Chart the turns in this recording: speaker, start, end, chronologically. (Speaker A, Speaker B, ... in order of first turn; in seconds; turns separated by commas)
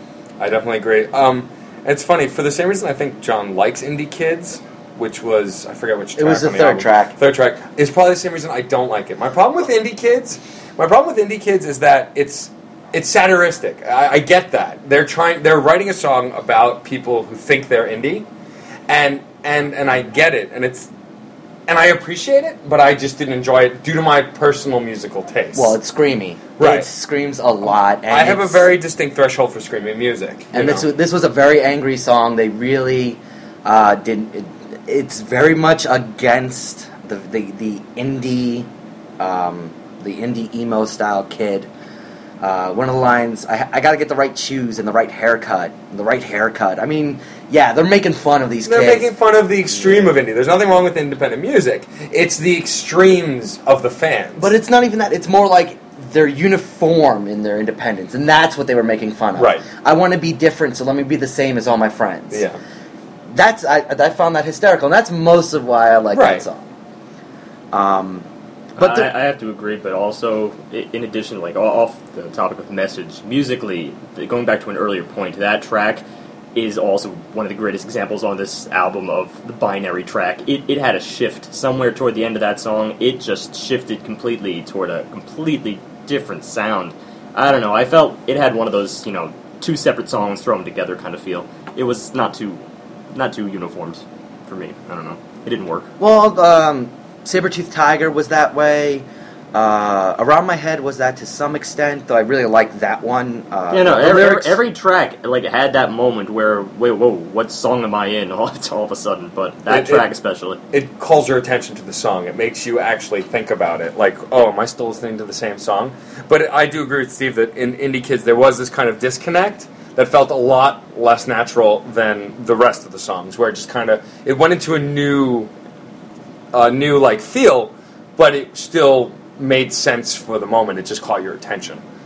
Speaker A: 0.4-18.3, Speaker B: 6.2-7.2, Speaker A: 18.9-20.9, Speaker A: 21.7-25.8, Speaker B: 25.5-28.7, Speaker A: 26.6-26.9, Speaker A: 28.1-30.8, Speaker B: 30.5-41.7, Speaker B: 42.4-49.1, Speaker A: 48.6-54.5, Speaker B: 54.4-62.4, Speaker A: 59.4-59.6, Speaker A: 62.3-62.6, Speaker B: 63.3-66.7, Speaker A: 66.1-66.4, Speaker B: 67.7-68.2, Speaker B: 68.8-69.1, Speaker C: 68.8-76.0, Speaker C: 76.5-92.6, Speaker C: 93.1-95.9, Speaker B: 96.0-104.6, Speaker C: 103.7-110.6, Speaker A: 109.7-110.0, Speaker A: 110.7-125.5, Speaker A: 126.5-131.8